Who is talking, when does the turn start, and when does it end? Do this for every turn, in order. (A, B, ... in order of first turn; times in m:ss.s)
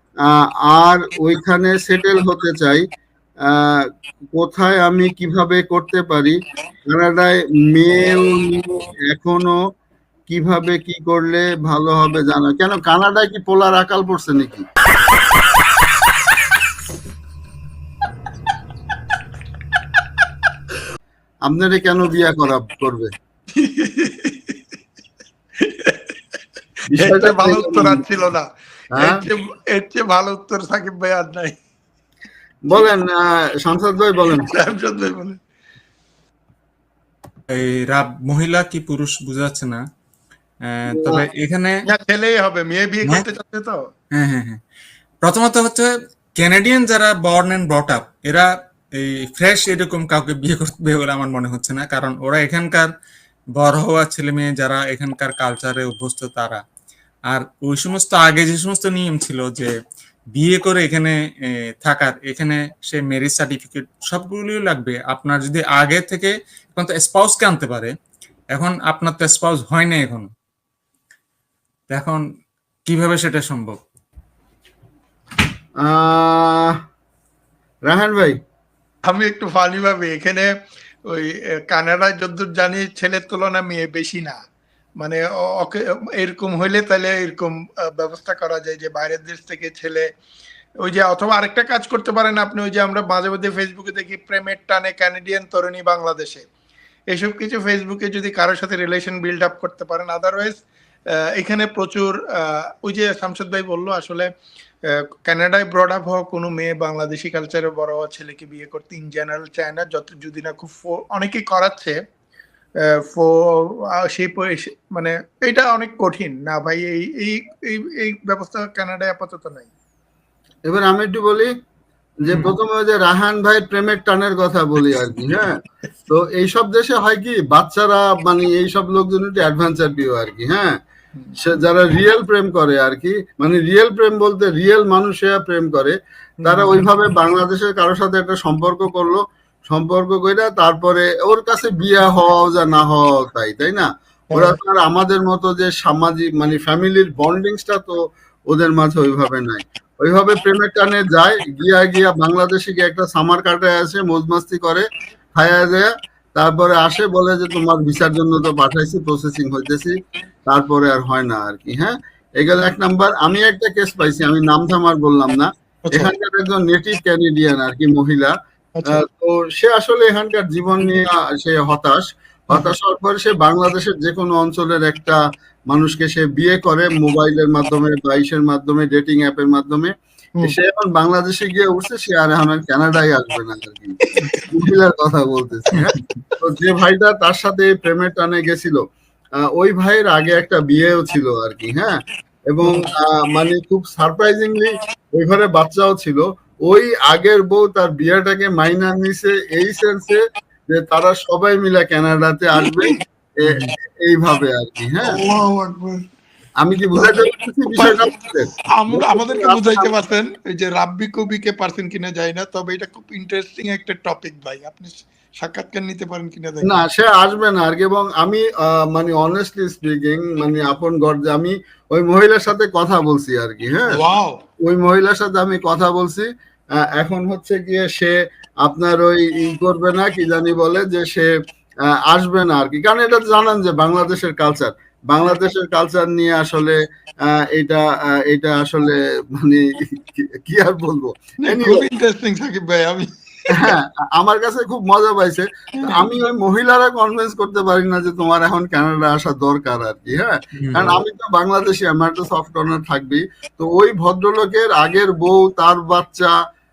0:00.3-0:02.8 A
0:03.5-0:03.8 A
0:04.4-0:06.4 A
0:06.9-0:09.6 A
0:10.3-0:14.6 A
0:21.5-0:23.1 A
0:23.5-0:24.6 B
0:25.6-0:26.2 B
0:26.9-0:28.0 A
0:27.0-0:31.6 B
0:29.0-0:29.2 A
0:32.7-0:34.5 A
0:34.3-0:35.4 B
0:37.5-0:39.8 C
0:40.7-0:41.8 C
0:40.9-0:41.2 A
0:41.9-0:43.9 B
0:44.2-0:44.6 C
0:45.2-0:52.9 C
0:53.6-0:56.6 C
0:57.3-0:59.7 C
1:00.4-1:07.9 C
1:08.6-1:10.3 C
1:11.9-1:12.2 C
1:12.9-1:13.8 C
1:15.8-1:16.8 A
1:17.9-1:18.4 A
1:19.1-1:20.5 B
1:21.0-1:24.4 B
1:25.0-1:30.1 B
1:30.8-1:36.5 B
1:37.1-1:44.3 B
1:44.8-1:52.0 B
1:52.8-1:59.7 B
2:00.7-2:01.5 A
2:02.2-2:05.6 A
2:06.1-2:10.8 A
2:11.4-2:28.0 A
2:16.4-2:16.8 B
2:28.5-2:34.8 A
2:35.4-2:40.0 A
2:40.5-2:48.3 A
2:45.9-2:46.1 B
2:48.8-2:49.0 B
2:48.9-2:55.2 A
2:55.7-3:08.8 A
3:04.2-3:04.5 B
3:05.8-3:06.1 C
3:09.4-3:12.0 A
3:12.5-3:25.2 A
3:22.6-3:23.0 B
3:23.5-3:23.7 C
3:25.0-3:26.0 B
3:26.6-3:29.9 A
3:27.0-3:27.2 B
3:27.8-3:28.1 B
3:28.7-3:36.8 B
3:36.6-3:44.0 A
3:43.9-3:44.4 B
3:44.6-3:46.3 A
3:46.8-3:51.3 A
3:51.9-3:56.8 A
3:57.5-4:01.8 A
4:01.4-4:03.8 B
4:03.5-4:16.4 A
4:05.8-4:06.1 B
4:10.6-4:11.0 C